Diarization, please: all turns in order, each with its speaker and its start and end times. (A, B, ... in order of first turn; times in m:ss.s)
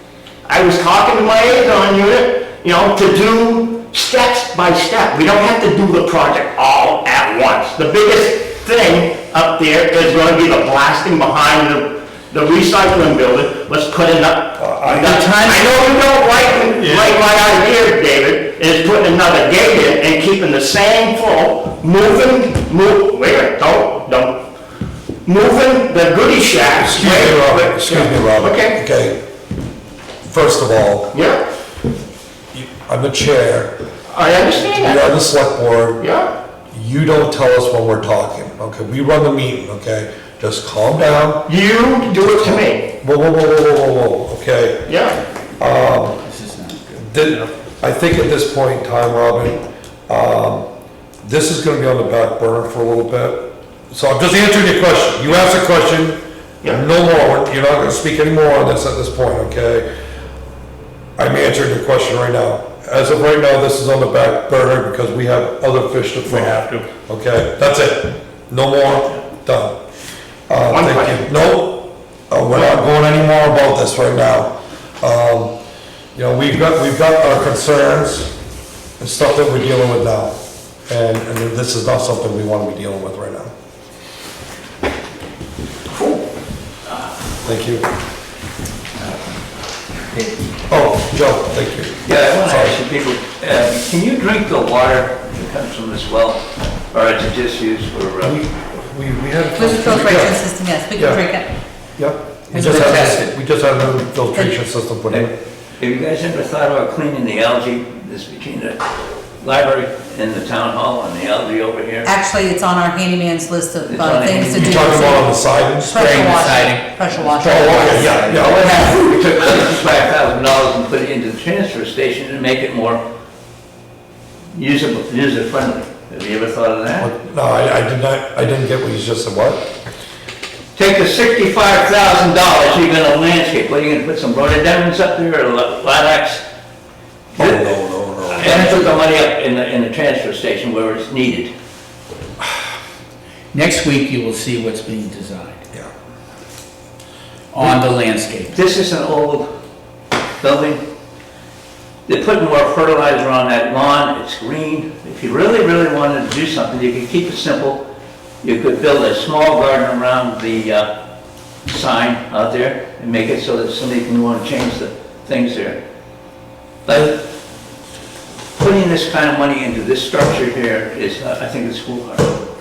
0:00.4-0:24.4 A
0:14.6-0:15.2 B
0:15.0-0:15.7 C
0:25.3-0:28.8 A
0:26.7-0:29.2 B
0:30.2-0:31.2 B
0:31.1-0:31.4 A
0:32.5-0:33.7 B
0:34.1-0:35.1 A
0:34.6-0:36.1 B
0:36.0-0:36.3 A
0:36.7-0:41.5 B
0:41.5-0:42.9 A
0:42.3-0:44.9 B
0:44.9-0:45.2 A
0:45.6-0:46.2 B
0:46.2-0:47.4 C
0:46.9-0:50.7 B
0:51.2-0:59.9 B
1:01.2-1:09.8 B
1:10.5-1:15.5 B
1:10.7-1:11.3 A
1:16.2-1:18.3 B
1:19.0-1:20.4 B
1:20.9-1:23.5 B
1:25.9-1:26.3 D
1:27.4-1:27.9 B
1:30.7-1:32.8 B
1:32.0-1:38.4 D
1:38.2-1:40.4 B
1:39.6-1:41.5 E
1:41.0-1:41.2 B
1:42.0-1:45.4 B
1:42.6-1:43.3 C
1:45.1-1:48.9 D
1:49.4-1:52.1 D
1:52.0-1:55.3 E
1:53.9-1:55.2 D
1:54.6-1:56.3 B
1:55.8-1:58.9 E
1:55.9-1:58.5 C
1:57.4-1:59.1 B
1:57.8-2:03.0 D
2:04.5-2:07.1 D
2:07.0-2:09.7 B
2:10.8-2:16.4 D
2:17.4-2:17.7 D
2:17.4-2:19.0 B
2:18.3-2:21.5 D
2:23.5-2:25.6 C
2:27.5-2:28.6 C
2:28.5-2:29.5 D
2:30.4-2:30.8 D
2:32.1-2:37.8 D
2:38.4-2:40.9 D
2:41.7-2:45.8 D
2:46.9-2:47.2 D
2:48.6-2:52.4 D